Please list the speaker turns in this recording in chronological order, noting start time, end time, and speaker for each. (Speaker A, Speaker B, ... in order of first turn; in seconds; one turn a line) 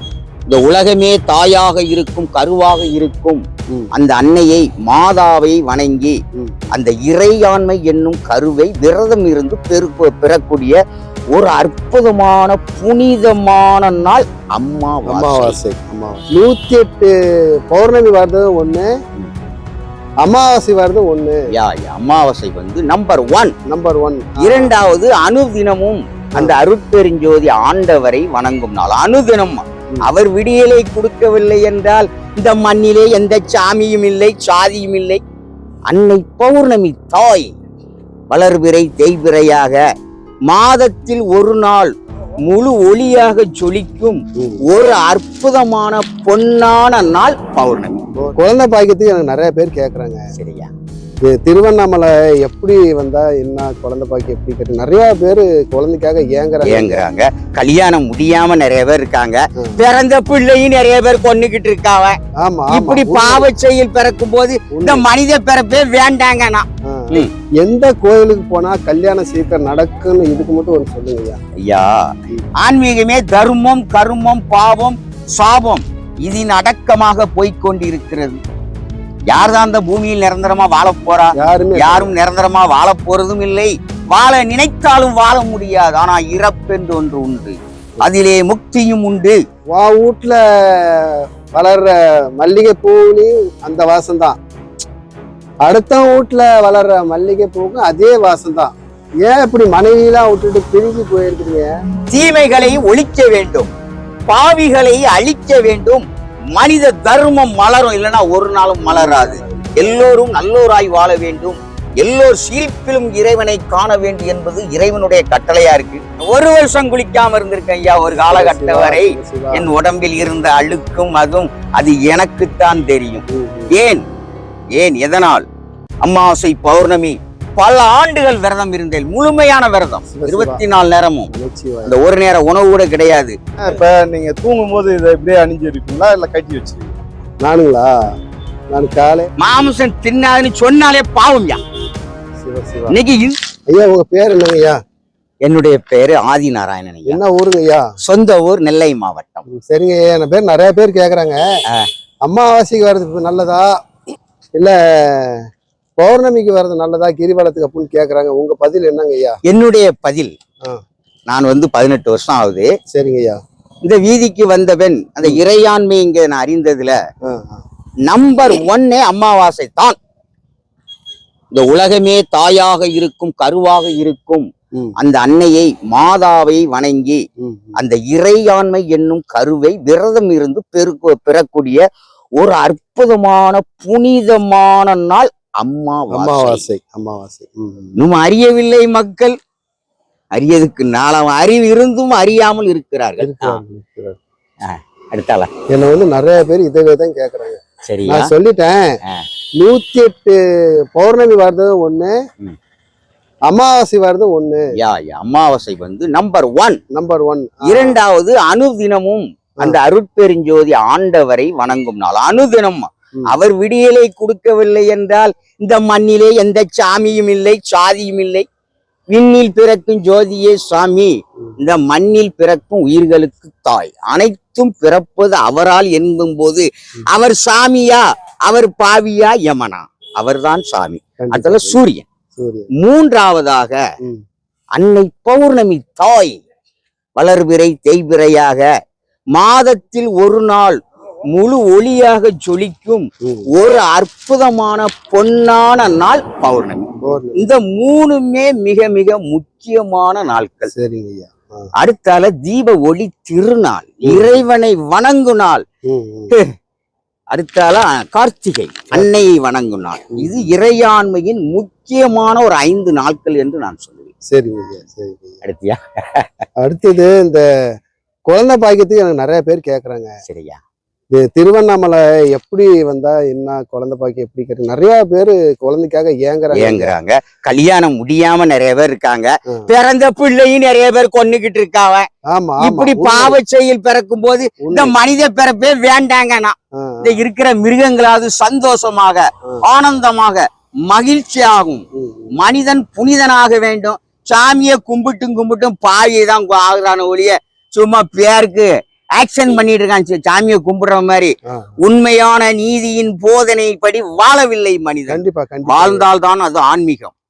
Speaker A: 0.5-6.2
Speaker B: 6.3-6.7
Speaker A: 6.7-10.8
Speaker A: 11.3-15.6
Speaker B: 15.1-18.9
Speaker B: 20.2-21.4
Speaker A: 21.5-23.5
Speaker B: 23.7-24.7
Speaker A: 24.4-35.2
Speaker A: 35.9-37.5
Speaker A: 38.3-39.8
Speaker A: 40.5-41.9
Speaker A: 42.5-48.0
Speaker B: 44.4-44.6
Speaker B: 48.2-50.2
Speaker A: 50.3-50.7
Speaker B: 51.2-57.0
Speaker A: 56.6-62.2
Speaker B: 62.4-63.5
Speaker A: 62.7-67.3
Speaker B: 64.7-65.1
Speaker B: 66.8-71.4
Speaker A: 71.6-78.4
Speaker A: 79.3-89.4
Speaker B: 81.4-82.1
Speaker B: 89.7-94.4
Speaker B: 95.6-101.8
Speaker A: 102.1-103.7
Speaker A: 104.3-124.0
Speaker B: 108.9-109.9
Speaker B: 118.3-119.7
Speaker B: 123.3-123.7
Speaker A: 124.7-125.4
Speaker A: 126.0-131.3
Speaker B: 130.1-130.6
Speaker B: 131.3-131.9
Speaker A: 131.8-133.4
Speaker C: 133.6-137.0
Speaker B: 137.4-138.1
Speaker B: 138.7-139.3
Speaker A: 139.4-141.6
Speaker B: 142.4-143.0
Speaker A: 142.9-143.4
Speaker B: 143.7-144.8
Speaker A: 145.4-147.2
Speaker B: 147.1-147.9
Speaker A: 148.0-149.4
Speaker B: 149.5-151.4
Speaker B: 152.2-153.8
Speaker B: 154.6-159.4
Speaker A: 159.4-160.3
Speaker A: 161.3-162.7
Speaker B: 162.9-163.4
Speaker A: 163.8-167.0
Speaker B: 167.2-167.6
Speaker A: 168.1-170.0
Speaker A: 171.5-177.2
Speaker B: 177.4-177.8
Speaker A: 177.8-181.8
Speaker A: 182.4-186.6
Speaker B: 186.1-188.0
Speaker A: 188.0-189.3
Speaker A: 190.3-193.6
Speaker B: 193.2-194.2
Speaker A: 194.6-195.5
Speaker B: 195.7-199.0
Speaker A: 197.8-198.3
Speaker B: 199.6-202.2
Speaker B: 203.5-204.7
Speaker A: 204.8-206.8
Speaker B: 206.9-208.0
Speaker A: 207.6-218.4
Speaker A: 219.1-232.1
Speaker B: 231.2-231.8
Speaker B: 232.3-232.7
Speaker A: 232.7-233.8
Speaker A: 234.8-236.4
Speaker A: 237.2-238.7
Speaker A: 239.3-240.8
Speaker A: 241.3-250.7
Speaker B: 243.2-243.5
Speaker B: 247.0-247.4
Speaker B: 250.7-251.7
Speaker A: 251.8-255.6
Speaker B: 254.0-254.4
Speaker B: 255.8-256.3
Speaker A: 257.3-264.1
Speaker B: 260.1-260.5
Speaker B: 264.3-265.4
Speaker A: 265.4-266.3
Speaker B: 266.6-267.4
Speaker B: 268.3-270.1
Speaker A: 270.2-270.6
Speaker B: 271.1-276.9
Speaker A: 276.5-282.1
Speaker B: 282.3-283.4
Speaker A: 282.6-291.8
Speaker B: 284.6-284.9
Speaker B: 286.7-287.2
Speaker B: 291.9-292.3
Speaker A: 292.4-307.1
Speaker B: 301.5-301.8
Speaker B: 305.1-306.0